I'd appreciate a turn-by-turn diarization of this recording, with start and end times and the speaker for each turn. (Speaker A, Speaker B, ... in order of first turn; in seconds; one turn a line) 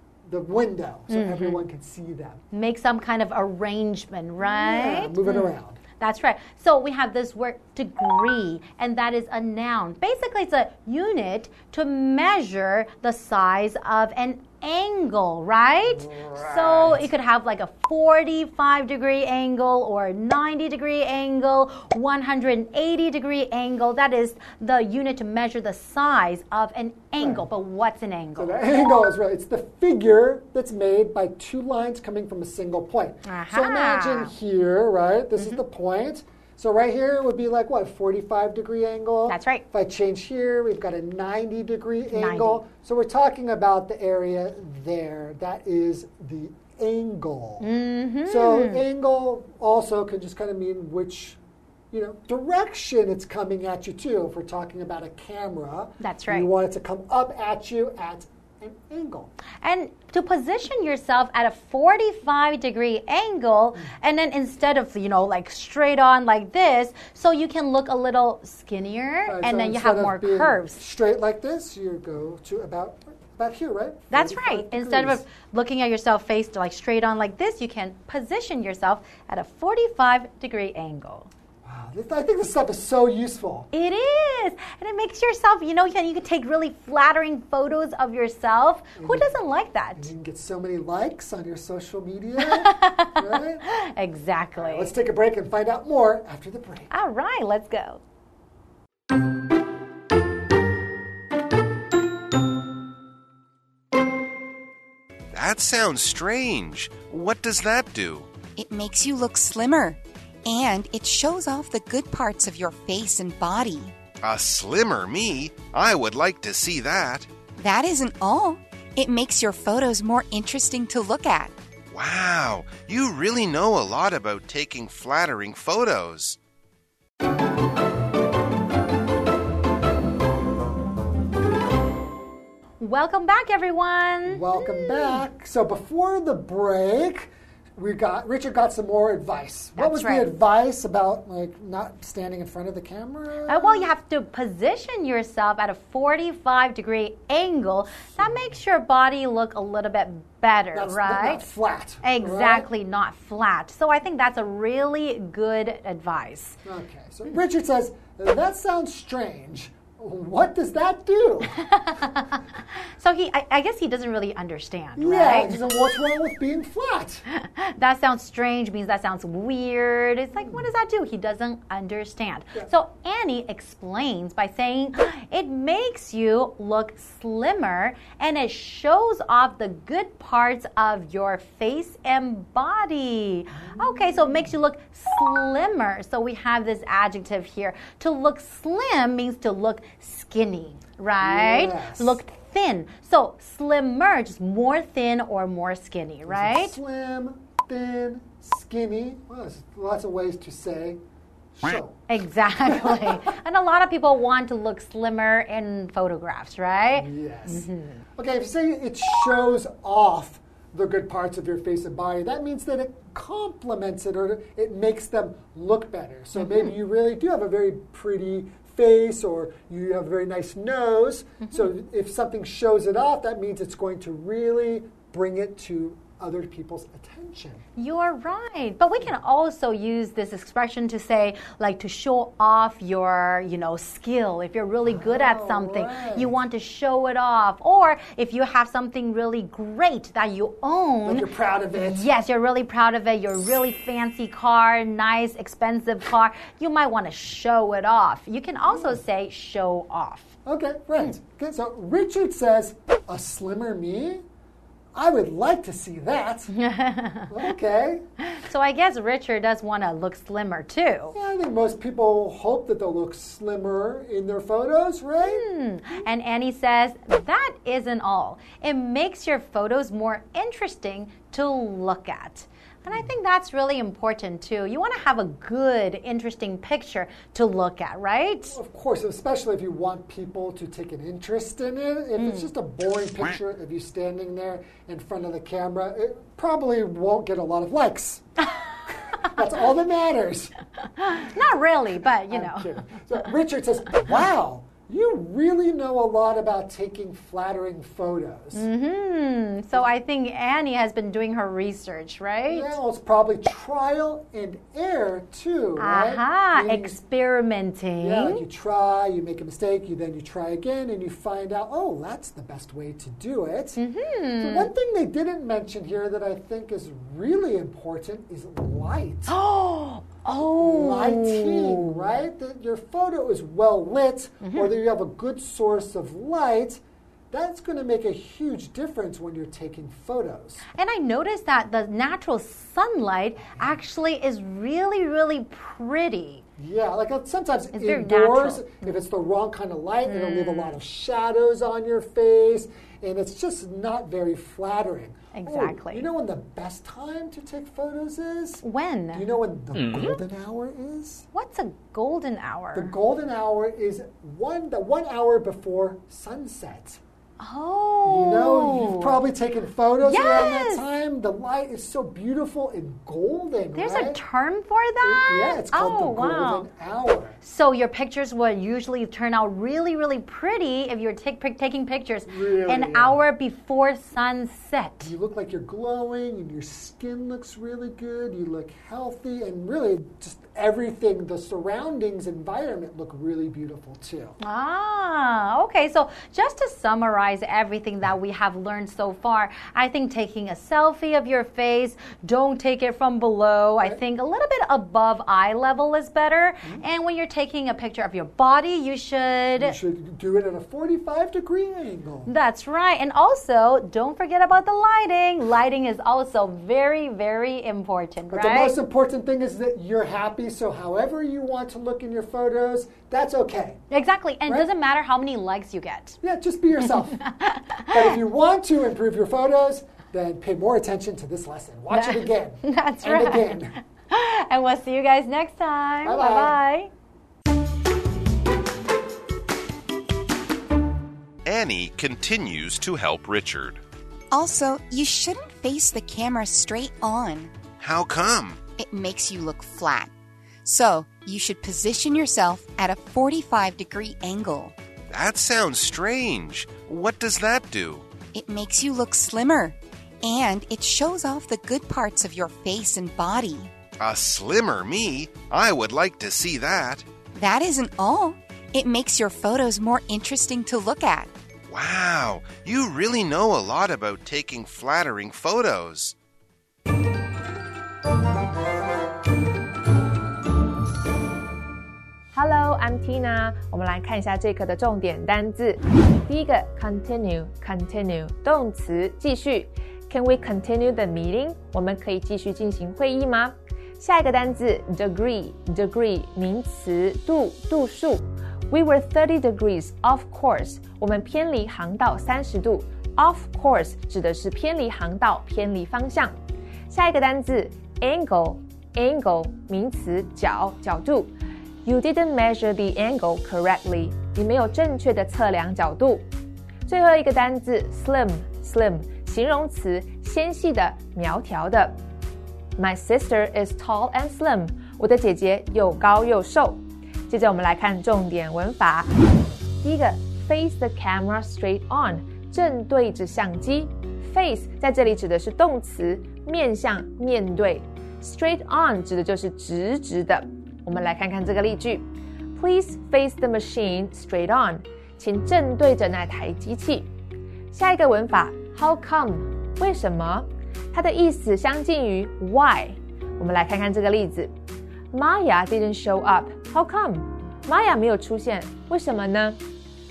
Speaker A: 0.3-2.4
Speaker B: 1.1-1.6
Speaker B: 2.5-28.6
Speaker A: 4.4-5.8
Speaker A: 15.8-17.1
Speaker A: 27.2-27.5
Speaker A: 28.4-47.7
Speaker B: 33.3-34.4
Speaker B: 39.3-39.6
Speaker B: 42.1-42.6
Speaker B: 47.6-48.9
Speaker A: 48.2-51.4
Speaker A: 51.9-59.3
Speaker B: 56.0-56.5
Speaker B: 59.6-70.8
Speaker A: 69.3-75.2
Speaker B: 74.1-81.3
Speaker A: 81.6-83.7
Speaker B: 83.7-90.1
Speaker A: 89.0-93.7
Speaker B: 92.4-95.0
Speaker A: 94.6-96.9
Speaker B: 96.9-98.0
Speaker C: 105.3-108.3
Speaker D: 108.6-113.9
Speaker C: 114.2-117.3
Speaker D: 117.6-121.5
Speaker C: 121.9-126.4
Speaker B: 132.8-135.2
Speaker A: 134.3-143.9
Speaker B: 139.8-140.3
Speaker B: 143.5-151.5
Speaker A: 148.1-148.6
Speaker A: 150.7-152.7
Speaker B: 152.0-156.6
Speaker A: 156.7-161.6
Speaker B: 161.5-165.6
Speaker A: 165.0-167.2
Speaker B: 167.3-196.8
Speaker A: 170.4-170.7
Speaker A: 183.6-184.5
Speaker A: 191.2-192.2
Speaker A: 196.3-201.0
Speaker A: 201.6-202.0
Speaker B: 202.1-208.0
Speaker A: 202.6-203.1
Speaker A: 206.9-227.6
Speaker B: 216.4-216.7
Speaker B: 221.4-221.7
Speaker B: 227.8-250.3
Speaker A: 234.8-236.4
Speaker A: 241.0-242.1
Speaker A: 248.7-249.0
Speaker A: 250.4-254.2
Speaker A: 254.9-256.6
Speaker B: 256.5-257.4
Speaker A: 257.3-258.1
Speaker B: 258.3-261.2
Speaker A: 261.1-265.4
Speaker B: 265.2-278.6
Speaker A: 278.4-290.6
Speaker B: 282.2-282.5
Speaker B: 291.0-292.9
Speaker A: 292.3-298.7
Speaker B: 298.5-302.8
Speaker A: 302.5-307.0
Speaker B: 305.8-308.4
Speaker A: 308.0-313.8
Speaker B: 313.8-314.7
Speaker A: 314.4-319.4
Speaker B: 319.3-322.1
Speaker A: 320.6-330.7
Speaker B: 324.4-324.8
Speaker B: 330.7-336.4
Speaker A: 336.6-351.3
Speaker B: 337.7-338.9
Speaker B: 340.1-340.8
Speaker B: 345.3-346.1
Speaker B: 348.6-349.3
Speaker B: 351.3-352.9
Speaker A: 352.7-357.0
Speaker B: 357.4-359.2
Speaker A: 358.1-364.2
Speaker B: 360.0-360.9
Speaker B: 363.8-366.7
Speaker A: 365.0-367.4
Speaker B: 367.4-375.1
Speaker A: 372.3-373.2
Speaker A: 375.0-384.4
Speaker B: 384.4-399.8
Speaker A: 399.6-402.3
Speaker B: 402.3-408.8
Speaker A: 408.3-413.8
Speaker B: 413.9-416.2
Speaker A: 416.2-417.3
Speaker B: 416.9-418.2
Speaker A: 417.9-423.8
Speaker B: 421.9-426.9
Speaker A: 426.0-426.6
Speaker C: 431.4-433.8
Speaker D: 434.3-437.5
Speaker C: 437.8-438.6
Speaker D: 438.7-440.1
Speaker D: 440.6-444.7
Speaker C: 445.1-448.1
Speaker D: 448.3-453.7
Speaker C: 454.0-457.1
Speaker D: 457.4-461.3
Speaker C: 461.7-466.1
Speaker E: 472.3-496.3
Speaker E: 496.9-501.3
Speaker E: 501.8-506.2
Speaker E: 506.9-512.0
Speaker E: 512.8-519.1
Speaker E: 519.8-537.1
Speaker E: 537.7-544.5
Speaker E: 545.1-549.6